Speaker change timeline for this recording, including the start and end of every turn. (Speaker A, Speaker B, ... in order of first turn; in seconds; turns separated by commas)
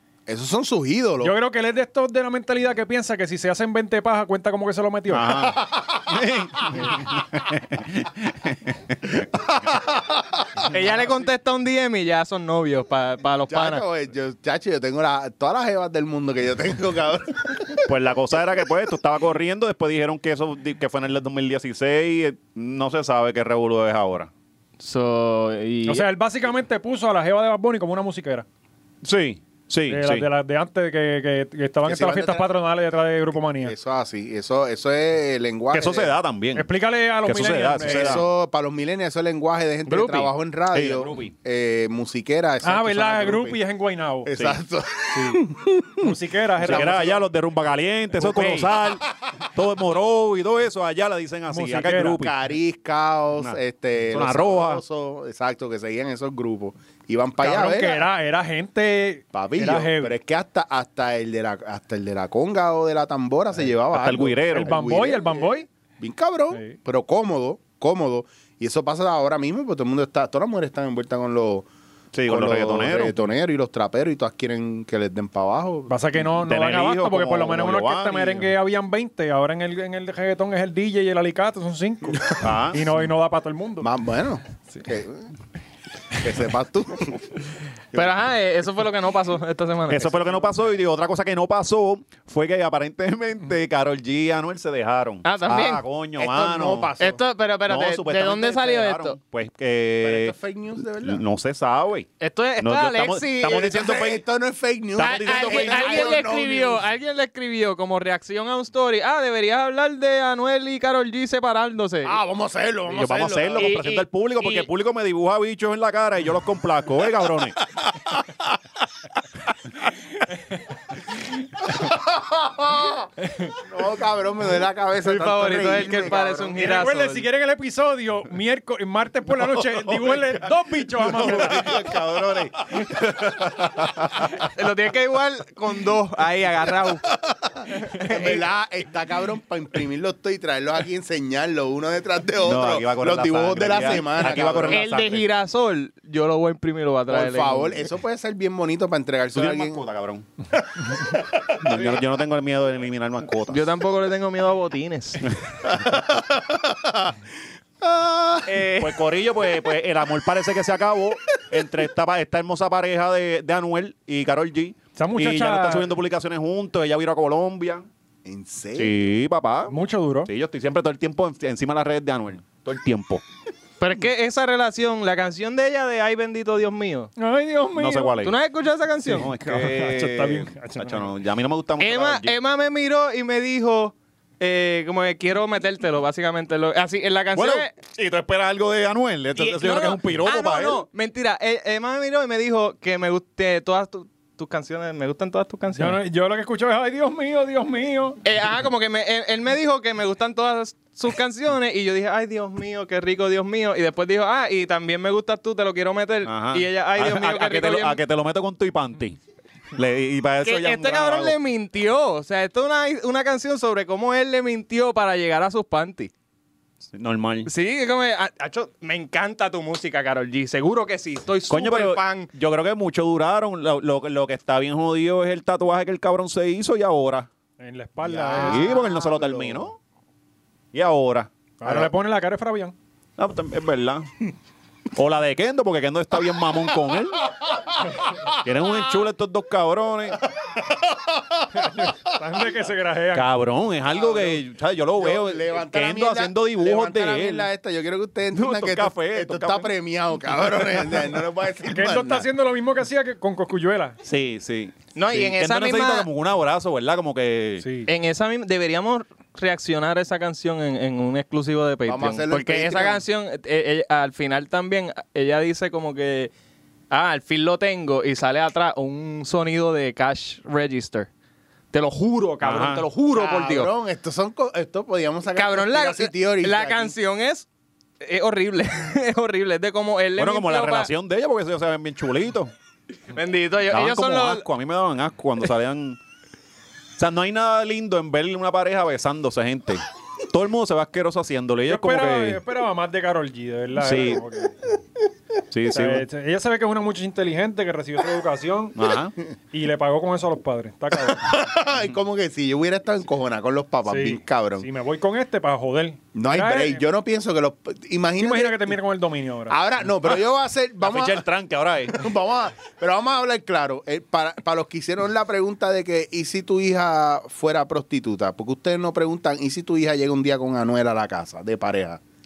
Speaker A: 0.3-1.3, Speaker B: 1.2-5.5, Speaker C: 5.1-9.2, Speaker A: 5.3-6.0, Speaker A: 9.4-10.7, Speaker D: 10.7-13.8, Speaker A: 13.5-17.9, Speaker C: 17.8-24.3, Speaker D: 24.8-26.0, Speaker B: 25.9-28.4, Speaker C: 29.0-30.3, Speaker B: 29.9-33.7, Speaker A: 31.8-32.4, Speaker A: 33.6-36.1, Speaker C: 35.7-36.7, Speaker B: 36.5-38.2, Speaker C: 37.2-38.2, Speaker A: 37.8-43.6, Speaker D: 39.9-40.3, Speaker C: 40.7-41.3, Speaker B: 42.6-44.3, Speaker A: 44.2-46.0, Speaker B: 45.1-45.5, Speaker B: 46.0-47.2, Speaker C: 46.6-52.3, Speaker A: 46.6-47.1, Speaker B: 51.5-52.2, Speaker A: 52.2-58.1, Speaker C: 54.1-54.8, Speaker B: 57.4-60.1, Speaker A: 59.3-65.5, Speaker C: 63.9-64.8, Speaker B: 64.5-65.7, Speaker A: 66.0-71.7, Speaker C: 72.1-73.2, Speaker A: 72.2-75.9, Speaker B: 75.9-83.9, Speaker C: 76.2-78.5, Speaker C: 82.4-82.8, Speaker A: 83.8-85.3, Speaker A: 86.2-87.4, Speaker D: 87.9-90.5, Speaker C: 89.9-96.9, Speaker D: 95.2-95.8, Speaker A: 96.2-97.2, Speaker D: 97.0-99.2, Speaker C: 97.7-100.3, Speaker A: 100.0-101.2, Speaker C: 101.0-104.2, Speaker D: 102.2-103.8, Speaker A: 103.5-106.8, Speaker C: 104.9-106.3, Speaker D: 105.0-112.2, Speaker A: 112.0-113.7, Speaker C: 112.9-117.6, Speaker D: 113.6-114.7, Speaker A: 117.8-118.4, Speaker A: 121.6-123.1, Speaker A: 123.6-126.6, Speaker D: 125.0-127.2, Speaker B: 126.5-131.7, Speaker C: 129.6-130.4, Speaker C: 131.0-134.4, Speaker A: 131.3-131.8, Speaker D: 134.4-137.0, Speaker A: 137.2-144.8, Speaker D: 137.7-138.4, Speaker C: 142.4-145.2, Speaker D: 144.7-147.9, Speaker A: 147.1-149.8, Speaker C: 149.3-150.2, Speaker C: 151.5-153.7, Speaker D: 153.5-155.3, Speaker A: 155.7-157.1, Speaker A: 157.8-158.5, Speaker D: 158.4-159.0, Speaker C: 158.8-167.8, Speaker B: 164.9-165.9, Speaker A: 168.2-169.0, Speaker C: 168.7-169.7, Speaker B: 169.7-170.3, Speaker C: 170.2-173.2, Speaker D: 173.8-177.1, Speaker B: 177.2-178.2, Speaker C: 177.8-178.3, Speaker D: 178.2-179.3, Speaker C: 179.1-182.3, Speaker B: 179.2-181.1, Speaker D: 181.8-187.7, Speaker C: 187.3-190.8, Speaker D: 189.3-196.0, Speaker B: 195.7-198.2, Speaker D: 198.2-208.0, Speaker C: 206.2-209.2, Speaker C: 209.7-211.4, Speaker D: 210.4-216.1, Speaker C: 216.9-217.5, Speaker D: 217.4-222.3, Speaker C: 221.5-227.3, Speaker B: 227.6-228.7, Speaker A: 228.0-229.7, Speaker C: 228.3-229.8, Speaker C: 230.7-231.9, Speaker B: 231.6-232.7, Speaker C: 233.2-234.1, Speaker C: 234.9-237.3, Speaker C: 238.3-240.2, Speaker A: 240.6-241.9, Speaker B: 241.6-243.3, Speaker C: 243.1-247.5, Speaker A: 243.9-244.4, Speaker A: 245.0-252.3, Speaker C: 248.3-249.7, Speaker B: 251.7-254.0, Speaker C: 254.0-257.6, Speaker D: 254.9-256.1, Speaker B: 257.6-257.9, Speaker D: 257.9-266.3, Speaker A: 261.9-263.0, Speaker D: 266.9-271.1, Speaker D: 271.7-273.7, Speaker C: 272.4-272.8, Speaker A: 273.1-276.9, Speaker D: 275.3-277.5, Speaker D: 278.0-280.9, Speaker C: 280.1-282.5, Speaker D: 283.1-284.4, Speaker C: 283.7-286.0, Speaker C: 287.0-292.4, Speaker B: 291.7-294.6, Speaker C: 293.8-294.2, Speaker C: 295.5-296.1, Speaker B: 295.7-298.8, Speaker C: 298.7-299.1, Speaker B: 299.5-301.2, Speaker A: 301.0-304.7, Speaker B: 303.9-306.8, Speaker A: 306.1-308.8, Speaker B: 308.2-309.6, Speaker A: 309.5-311.2, Speaker C: 310.8-312.1, Speaker A: 311.9-322.0